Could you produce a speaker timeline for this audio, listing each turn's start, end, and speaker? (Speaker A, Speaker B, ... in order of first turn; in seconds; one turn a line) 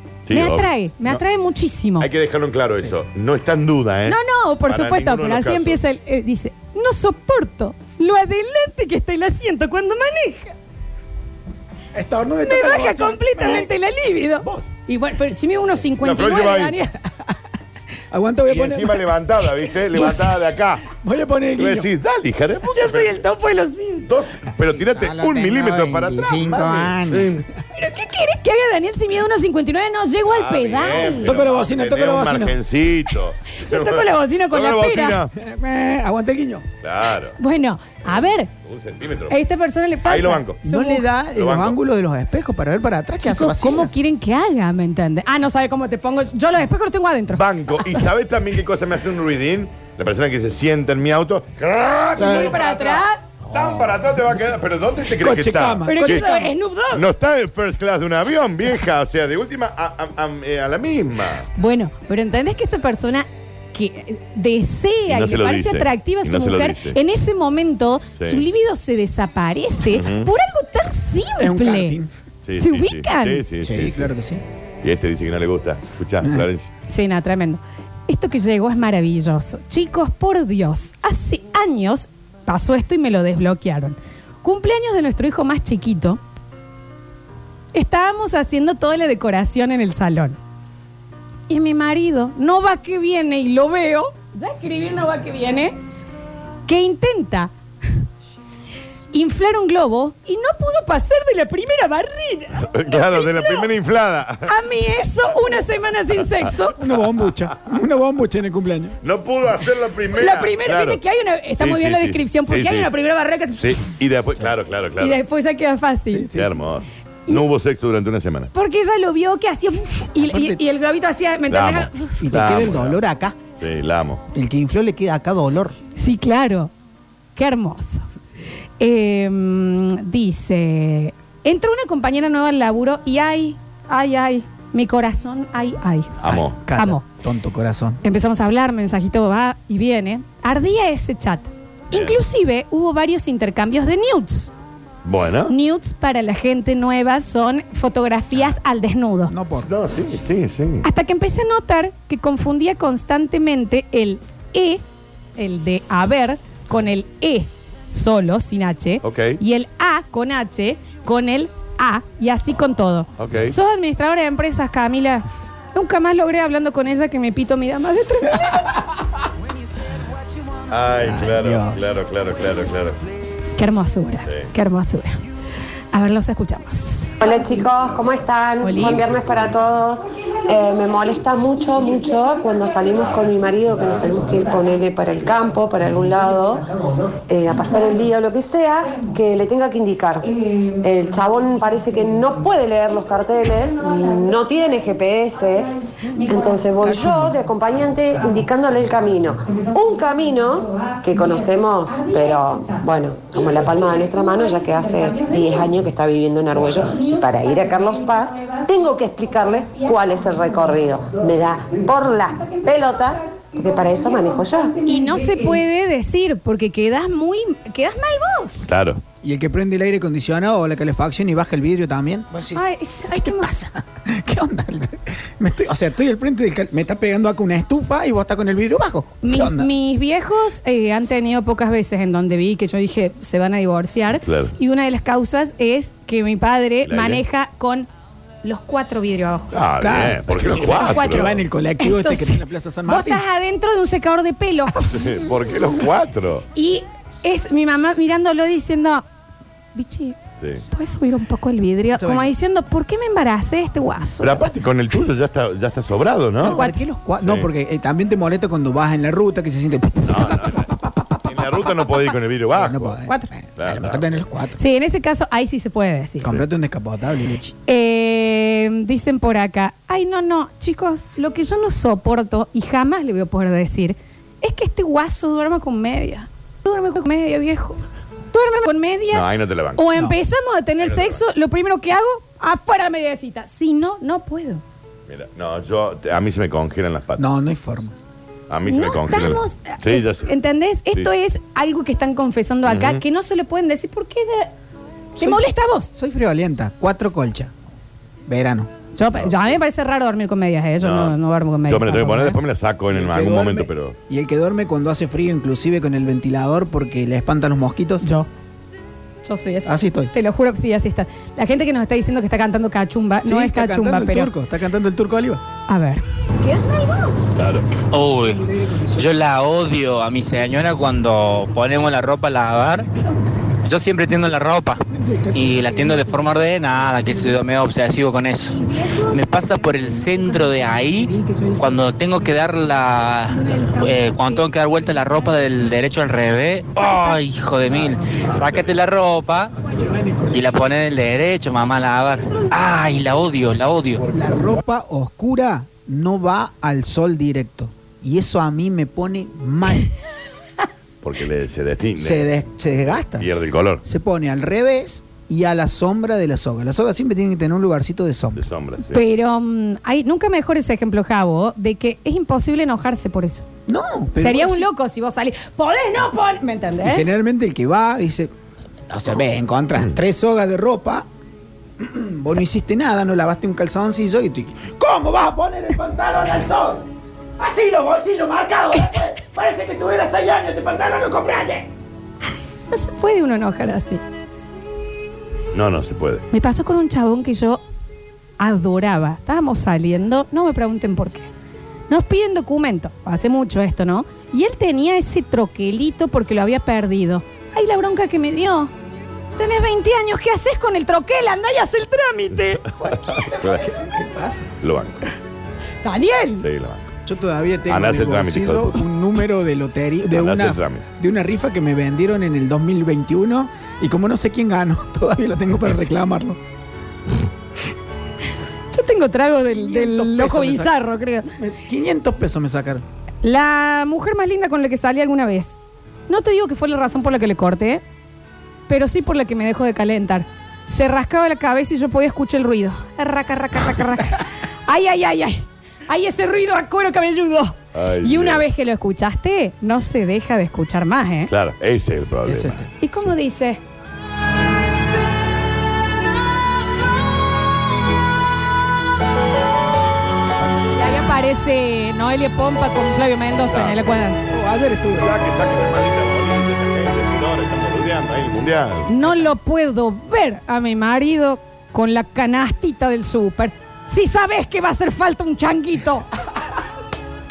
Speaker A: 0.3-1.2
Speaker B: 0.3-2.1
Speaker A: 2.0-5.8
Speaker B: 4.1-10.5
Speaker C: 11.9-13.7
Speaker B: 12.4-16.9
Speaker A: 16.0-16.9
Speaker C: 18.1-19.1
Speaker A: 18.5-20.9
Speaker B: 20.0-20.2
Speaker C: 21.0-21.9
Speaker A: 21.6-23.2
Speaker B: 22.7-24.1
Speaker A: 24.1-27.4
Speaker C: 24.7-27.5
Speaker B: 27.8-31.3
Speaker A: 30.3-35.3
Speaker C: 31.2-32.5
Speaker B: 33.5-35.2
Speaker C: 35.4-36.7
Speaker A: 36.8-37.4
Speaker B: 37.4-38.5
Speaker A: 38.1-39.4
Speaker B: 39.3-41.1
Speaker A: 40.0-40.6
Speaker C: 40.6-43.9
Speaker A: 41.4-41.8
Speaker B: 43.2-48.0
Speaker A: 47.3-56.3
Speaker C: 52.2-52.6
Speaker B: 52.2-53.2
Speaker C: 53.5-54.0
Speaker C: 55.2-56.5
Speaker B: 55.9-57.0
Speaker A: 56.9-61.5
Speaker B: 61.6-72.0
Speaker A: 65.1-67.0
Speaker A: 69.9-70.3
Speaker C: 71.4-72.1
Speaker A: 72.5-74.1
Speaker B: 72.6-73.4
Speaker C: 73.6-74.4
Speaker A: 74.8-76.7
Speaker B: 76.9-86.2
Speaker B: 87.7-90.4
Speaker B: 91.5-95.8
Speaker B: 96.7-97.5
Speaker B: 99.1-103.7
Speaker A: 102.6-104.5
Speaker B: 104.5-106.8
Speaker C: 106.8-109.0
Speaker A: 109.0-111.0
Speaker B: 110.2-114.0
Speaker A: 111.6-112.9
Speaker A: 113.5-115.2
Speaker B: 115.0-116.3
Speaker C: 116.1-116.6
Speaker A: 116.3-118.5
Speaker B: 118.5-122.2
Speaker C: 120.2-120.6
Speaker A: 121.5-123.0
Speaker C: 122.2-123.4
Speaker A: 123.6-124.2
Speaker C: 124.3-125.8
Speaker B: 126.0-126.7
Speaker B: 127.4-128.1
Speaker B: 128.8-136.2
Speaker A: 136.2-136.6
Speaker C: 136.2-138.0
Speaker B: 136.7-137.0
Speaker B: 138.0-144.5
Speaker A: 141.9-142.2
Speaker A: 145.0-145.5
Speaker B: 145.5-149.3
Speaker C: 149.3-149.7
Speaker A: 149.7-150.8
Speaker B: 150.8-154.8
Speaker B: 155.4-168.7
Speaker A: 159.0-159.4
Speaker A: 163.2-163.6
Speaker A: 170.7-173.0
Speaker C: 171.0-171.8
Speaker B: 173.6-175.2
Speaker B: 175.9-177.2
Speaker D: 177.2-186.7
Speaker B: 178.6-179.0
Speaker D: 187.3-214.8
Speaker B: 214.9-218.7
Speaker A: 218.7-219.0
Speaker C: 219.2-229.7
Speaker B: 222.5-223.5
Speaker B: 229.2-237.9
Speaker A: 234.2-234.5
Speaker A: 236.9-237.2
Speaker B: 238.4-239.6
Speaker A: 239.5-241.4
Speaker C: 239.8-243.2
Speaker B: 240.6-245.2
Speaker A: 244.9-246.4
Speaker B: 246.6-249.1
Speaker B: 249.8-250.2
Speaker B: 250.7-254.5
Speaker C: 251.9-252.3
Speaker A: 254.2-256.6
Speaker C: 256.4-260.9
Speaker B: 256.4-256.8
Speaker A: 257.2-257.5
Speaker A: 260.0-260.7
Speaker A: 261.2-263.0
Speaker C: 262.5-264.6
Speaker A: 263.6-264.1
Speaker B: 264.6-266.3
Speaker C: 266.2-267.5
Speaker B: 267.7-277.8
Speaker B: 278.3-284.6
Speaker A: 279.1-279.9
Speaker A: 280.8-281.2
Speaker A: 285.1-287.2
Speaker C: 287.2-287.9
Speaker A: 288.5-290.3
Speaker B: 288.7-294.5
Speaker A: 292.6-293.0
Speaker B: 295.1-295.9
Speaker C: 295.2-297.5
Speaker C: 298.3-298.7
Speaker B: 298.9-302.4
Speaker A: 299.1-299.6
Speaker A: 300.8-304.0
Speaker C: 302.9-308.1
Speaker B: 308.0-308.3
Speaker B: 309.2-314.3
Speaker C: 309.6-310.1
Speaker C: 313.2-315.4
Speaker B: 315.7-317.2
Speaker A: 317.4-317.7
Speaker E: 317.9-322.9
Speaker C: 318.2-319.1
Speaker E: 323.7-324.8
Speaker C: 324.9-326.3
Speaker E: 325.3-339.5
Speaker B: 328.7-329.1
Speaker B: 331.1-331.6
Speaker A: 338.3-338.7
Speaker C: 339.7-340.5
Speaker E: 340.3-344.0
Speaker C: 344.1-349.9
Speaker A: 351.0-352.4
Speaker C: 352.0-353.3
Speaker A: 353.1-353.8
Speaker C: 353.8-358.4
Speaker A: 358.4-359.0
Speaker B: 358.9-363.5
Speaker C: 363.7-364.7
Speaker B: 364.2-367.1
Speaker C: 366.8-368.3
Speaker C: 368.9-371.1
Speaker C: 371.8-376.9
Speaker C: 377.4-381.7
Speaker B: 382.7-384.0
Speaker A: 385.5-386.2
Speaker B: 386.3-387.6
Speaker B: 388.4-391.3
Speaker B: 391.9-398.7
Speaker B: 399.4-403.4
Speaker A: 402.9-403.8
Speaker C: 403.6-404.5
Speaker A: 404.6-405.1
Speaker B: 405.8-406.4
Speaker A: 406.4-406.9
Speaker C: 407.1-416.4
Speaker A: 407.7-408.8
Speaker A: 410.1-410.8
Speaker B: 418.7-421.3
Speaker C: 419.5-420.7
Speaker C: 421.4-422.8
Speaker B: 423.2-425.6
Speaker B: 426.1-427.8
Speaker B: 428.7-441.3
Speaker A: 437.7-438.4
Speaker A: 441.3-442.6
Speaker C: 442.2-442.7
Speaker B: 442.8-443.6
Speaker B: 450.7-454.2
Speaker A: 453.5-454.0
Speaker C: 454.3-455.1
Speaker A: 455.0-459.0
Speaker B: 458.9-466.1